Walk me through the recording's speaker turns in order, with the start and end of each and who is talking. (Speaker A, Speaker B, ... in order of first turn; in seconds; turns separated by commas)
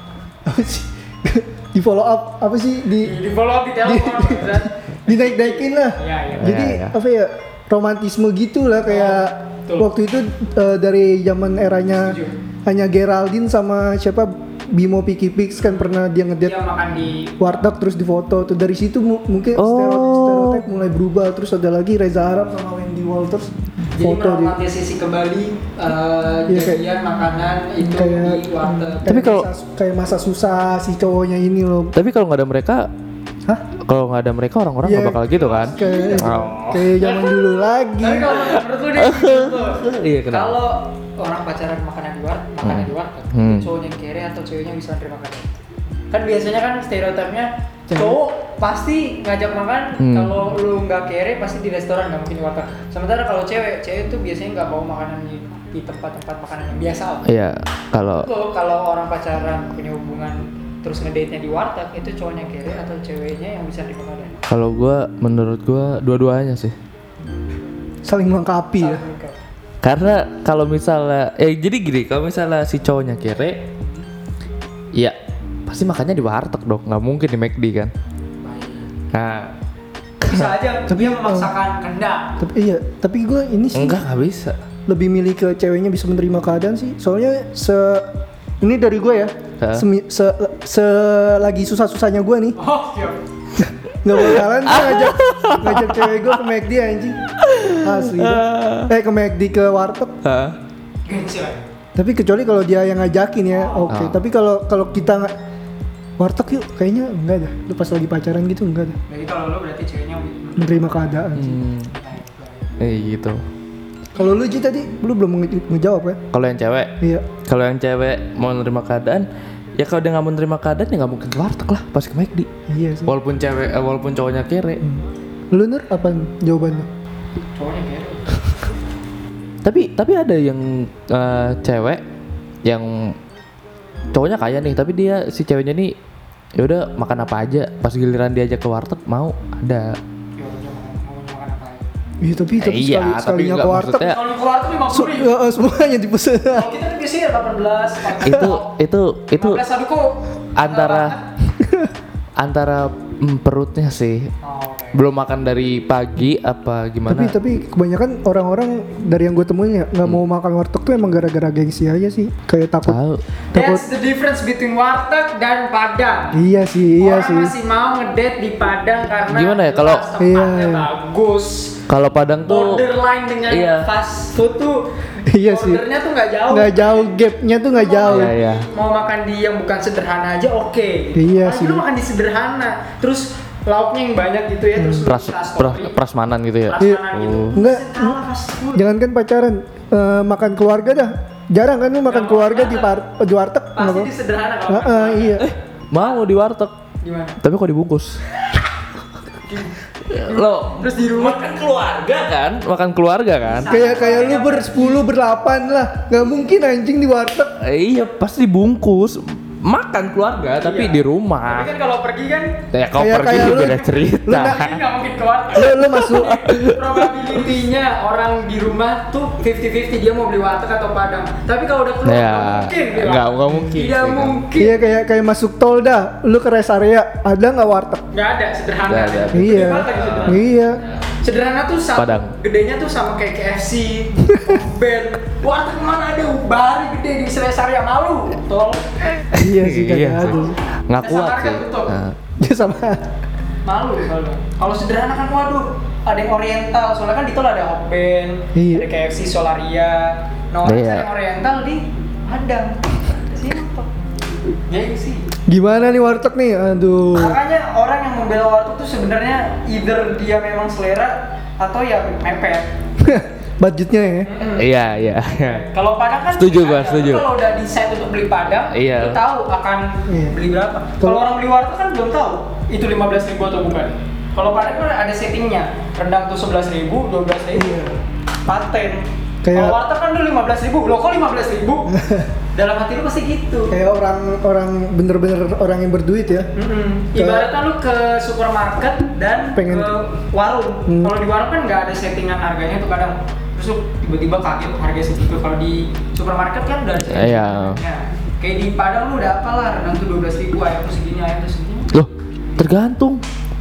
Speaker A: 0.4-3.1, Speaker B: 3.0-6.6, Speaker A: 3.8-16.6, Speaker C: 6.4-7.0, Speaker B: 8.8-9.9, Speaker B: 11.9-12.3, Speaker B: 15.6-17.6, Speaker A: 17.4-24.6, Speaker C: 19.6-20.6, Speaker B: 23.9-29.1, Speaker A: 26.5-26.8, Speaker A: 27.8-31.9, Speaker C: 29.1-29.5, Speaker C: 31.9-32.9, Speaker C: 33.9-37.0, Speaker A: 34.8-38.4, Speaker B: 35.3-36.4, Speaker B: 37.0-37.3, Speaker B: 38.0-45.6, Speaker C: 38.4-40.5, Speaker C: 42.6-43.7, Speaker B: 46.1-57.2, Speaker A: 47.9-48.2, Speaker C: 50.0-50.5, Speaker C: 57.2-58.3, Speaker B: 58.1-64.4, Speaker C: 64.5-66.7, Speaker A: 68.0-69.0, Speaker B: 68.8-69.4, Speaker C: 69.8-73.6, Speaker C: 75.7-77.9, Speaker B: 78.4-78.9, Speaker C: 79.1-79.5, Speaker C: 80.2-80.5, Speaker B: 80.2-82.3, Speaker A: 80.9-81.5, Speaker A: 82.4-84.0, Speaker C: 83.7-84.6, Speaker A: 84.9-88.1, Speaker A: 88.6-92.5, Speaker C: 89.6-89.8, Speaker B: 92.5-93.2, Speaker A: 93.6-100.2, Speaker C: 94.1-96.4, Speaker C: 97.4-98.9, Speaker C: 100.2-100.6, Speaker B: 101.0-101.7, Speaker A: 102.0-105.3, Speaker B: 103.5-103.9, Speaker C: 103.9-104.2, Speaker A: 106.2-109.0, Speaker B: 109.1-111.3, Speaker A: 110.6-111.6, Speaker C: 111.3-111.9, Speaker B: 111.9-112.7, Speaker C: 112.8-113.4, Speaker A: 114.1-116.2, Speaker C: 116.3-116.9, Speaker A: 117.0-117.3, Speaker C: 117.4-119.2, Speaker C: 119.8-122.5, Speaker A: 122.7-123.1, Speaker C: 123.1-124.8, Speaker A: 124.8-126.9, Speaker B: 127.5-128.3, Speaker C: 129.6-132.0, Speaker C: 132.6-133.1, Speaker C: 134.1-135.9, Speaker C: 136.6-140.0, Speaker B: 140.4-141.9, Speaker A: 142.2-144.1, Speaker C: 142.6-144.2, Speaker B: 144.0-145.3, Speaker A: 144.9-146.7, Speaker B: 146.5-148.7, Speaker C: 148.2-149.6, Speaker B: 149.3-151.2, Speaker C: 150.6-151.1, Speaker A: 151.6-151.9, Speaker C: 152.4-154.3, Speaker B: 154.4-155.0, Speaker C: 154.9-157.3, Speaker A: 157.1-163.0, Speaker C: 162.8-163.2, Speaker B: 163.5-166.4, Speaker A: 163.5-163.8, Speaker A: 166.3-167.5, Speaker B: 167.0-171.8, Speaker C: 169.3-170.1, Speaker A: 170.2-170.9, Speaker C: 171.9-172.8, Speaker B: 172.5-174.9, Speaker C: 173.5-173.9, Speaker A: 175.3-175.8, Speaker B: 175.4-177.1, Speaker A: 176.5-178.3, Speaker B: 177.7-185.9, Speaker C: 178.1-178.7, Speaker A: 181.1-181.8, Speaker A: 184.8-185.1, Speaker C: 185.1-187.6, Speaker B: 186.7-188.8, Speaker A: 186.8-188.2, Speaker A: 188.7-194.1, Speaker B: 192.1-192.9, Speaker B: 193.8-196.2, Speaker A: 194.7-195.4, Speaker C: 195.4-196.7, Speaker B: 197.0-197.4, Speaker C: 197.4-198.2, Speaker B: 199.4-201.4, Speaker C: 200.1-203.7, Speaker B: 203.4-205.1, Speaker A: 203.7-207.5, Speaker C: 207.6-211.7, Speaker B: 210.6-212.6, Speaker C: 212.7-214.8, Speaker A: 213.0-214.6, Speaker B: 214.3-224.8, Speaker A: 215.5-216.4, Speaker C: 215.7-217.2, Speaker C: 222.0-224.4, Speaker A: 224.6-228.0, Speaker B: 228.1-230.5, Speaker C: 228.9-230.9, Speaker A: 229.3-230.8, Speaker B: 231.2-238.9, Speaker C: 231.9-232.3, Speaker A: 234.3-234.6, Speaker C: 239.3-242.2, Speaker A: 239.3-240.6, Speaker B: 241.0-241.9, Speaker A: 242.4-243.0, Speaker B: 243.6-253.9, Speaker A: 248.5-248.9, Speaker C: 250.6-251.1, Speaker B: 254.7-255.3, Speaker A: 255.5-257.4, Speaker B: 257.1-262.7, Speaker A: 263.0-264.3, Speaker B: 264.2-277.8, Speaker C: 264.6-265.6, Speaker C: 266.3-267.3, Speaker C: 268.7-269.2, Speaker A: 270.1-270.4, Speaker A: 277.5-278.0, Speaker B: 278.4-281.9, Speaker A: 279.4-279.8, Speaker A: 281.9-282.3, Speaker B: 282.5-283.8, Speaker A: 283.7-286.5, Speaker B: 286.5-302.7, Speaker A: 287.1-287.5, Speaker A: 289.5-289.9, Speaker A: 290.9-291.1, Speaker C: 297.1-297.8, Speaker C: 301.9-303.2